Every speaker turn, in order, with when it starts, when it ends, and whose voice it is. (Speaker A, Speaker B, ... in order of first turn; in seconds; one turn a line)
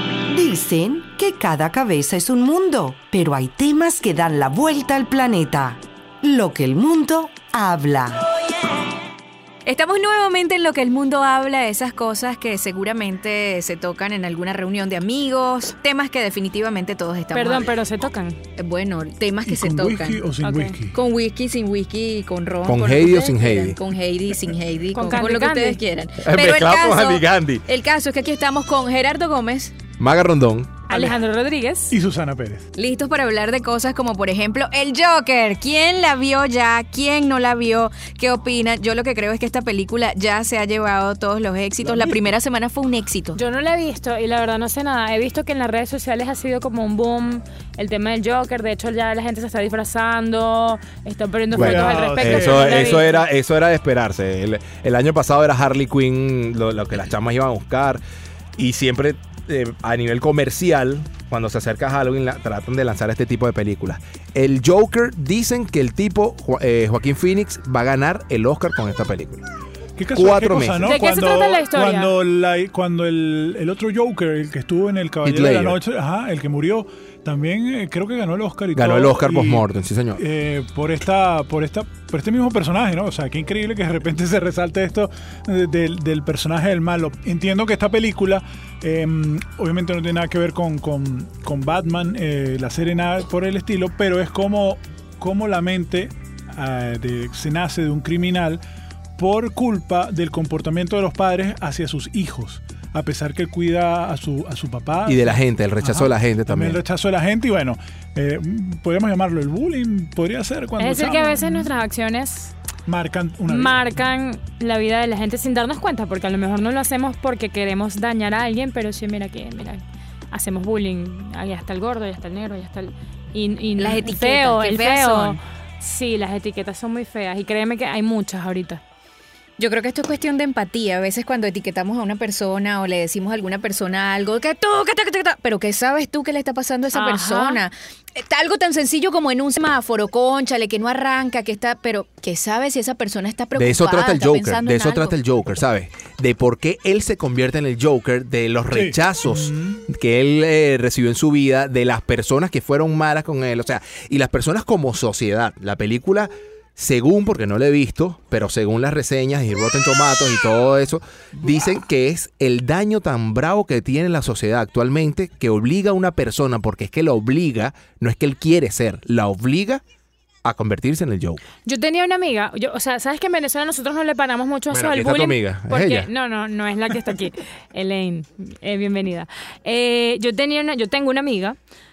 Speaker A: 0.3-8.2
Speaker B: 9.7-17.7
Speaker C: 17.3-18.4
Speaker B: 18.6-20.3
Speaker D: 19.5-21.0
Speaker C: 20.4-20.8
Speaker B: 20.9-29.8
Speaker E: 22.7-23.8
Speaker C: 24.9-25.8
Speaker E: 26.2-27.6
Speaker E: 30.0-30.8
Speaker C: 30.9-32.0
Speaker D: 31.9-32.7
Speaker B: 32.8-43.4
Speaker D: 41.8-42.3
Speaker C: 43.4-53.2
Speaker D: 51.5-53.1
Speaker E: 51.5-58.0
Speaker E: 58.6-69.5
Speaker D: 70.0-98.6
Speaker E: 70.1-71.0
Speaker C: 70.8-72.1
Speaker E: 75.2-75.8
Speaker E: 78.8-80.2
Speaker D: 99.2-111.7
Speaker E: 105.1-106.8
Speaker C: 110.8-112.5
Speaker D: 112.9-113.9
Speaker C: 113.5-128.8
Speaker B: 123.8-125.4
Speaker B: 129.6-145.2
Speaker C: 136.9-137.6
Speaker E: 143.6-169.8
Speaker D: 148.7-149.8
Speaker E: 170.4-171.4
Speaker C: 171.7-181.6
Speaker E: 174.7-176.1